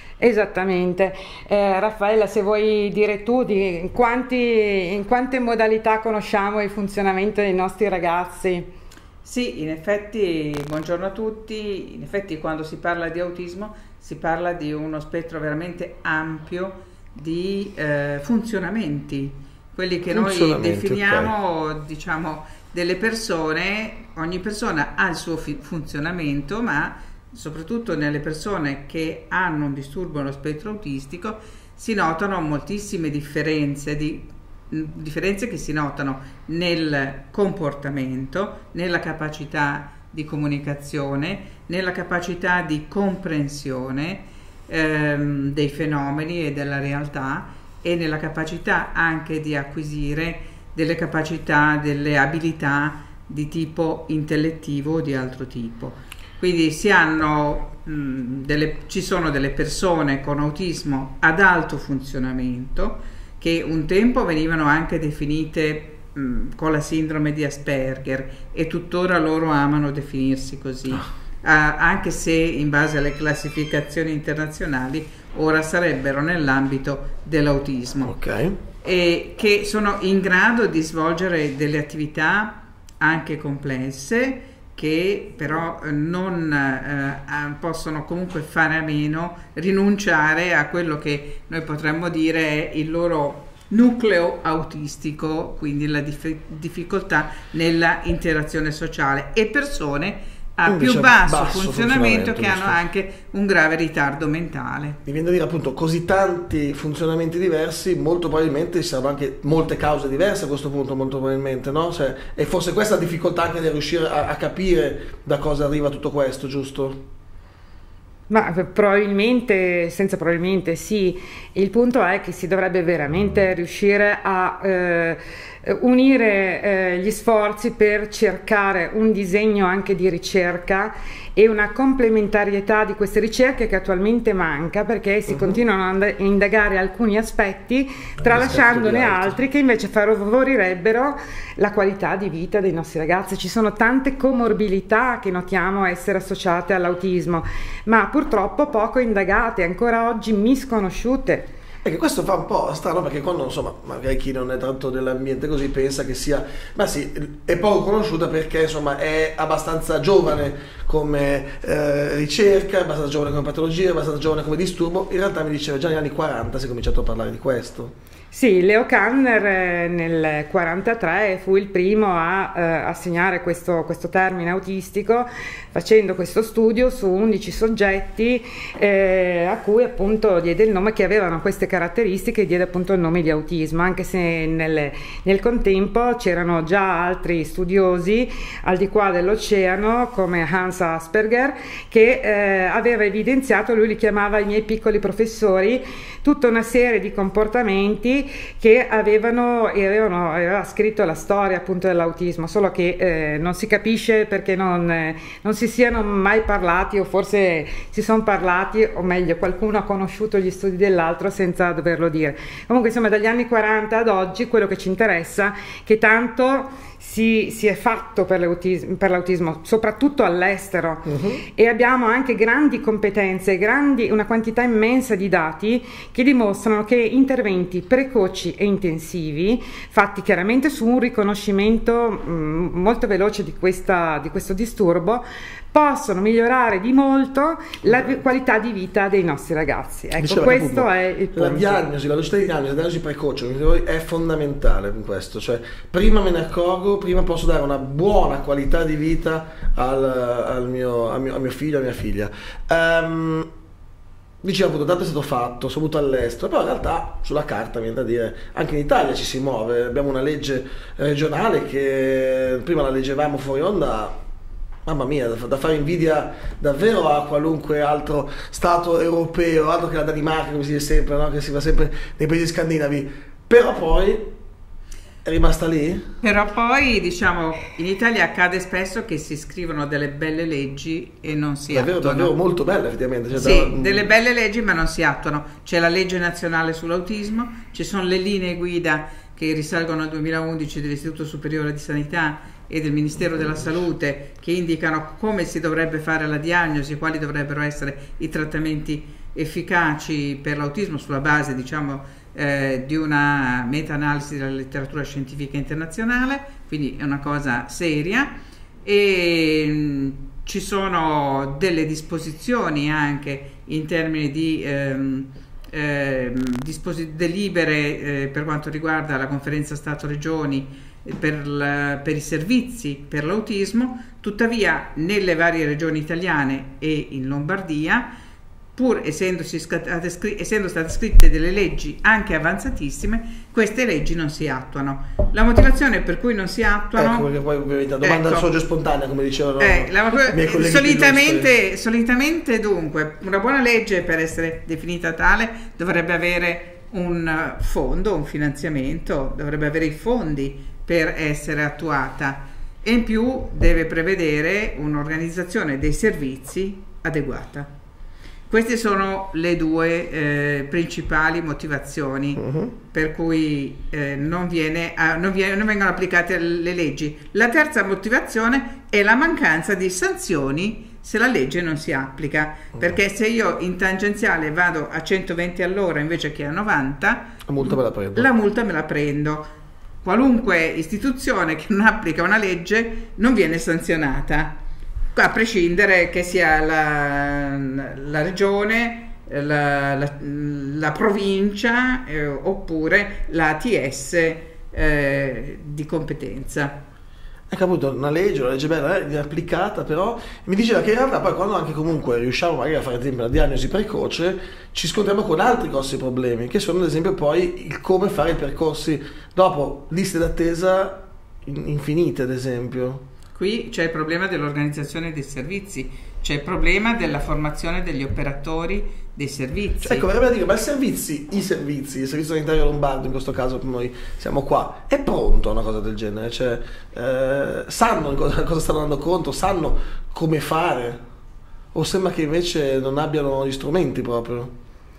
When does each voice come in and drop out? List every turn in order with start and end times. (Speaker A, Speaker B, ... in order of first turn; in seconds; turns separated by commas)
Speaker A: 0.2-8.7, Speaker B: 9.2-78.1, Speaker C: 20.1-21.3, Speaker C: 78.0-78.6, Speaker B: 78.8-105.0, Speaker C: 100.7-102.8, Speaker C: 105.1-117.0, Speaker A: 118.3-151.5, Speaker C: 138.2-139.3, Speaker C: 151.8-167.9, Speaker A: 168.3-241.8, Speaker C: 221.1-221.4, Speaker C: 240.2-253.5, Speaker C: 254.4-264.2, Speaker C: 264.9-274.3, Speaker C: 275.2-276.1, Speaker B: 276.2-282.3, Speaker C: 281.7-284.0, Speaker B: 283.4-328.1, Speaker B: 328.8-337.3, Speaker C: 337.0-341.5, Speaker B: 338.0-338.5, Speaker B: 339.6-357.7, Speaker B: 358.5-379.5, Speaker C: 362.4-362.7, Speaker C: 377.5-378.3, Speaker B: 380.0-384.6, Speaker B: 385.1-396.8, Speaker C: 397.5-413.0, Speaker B: 413.4-420.1, Speaker C: 419.8-431.0, Speaker C: 431.7-434.5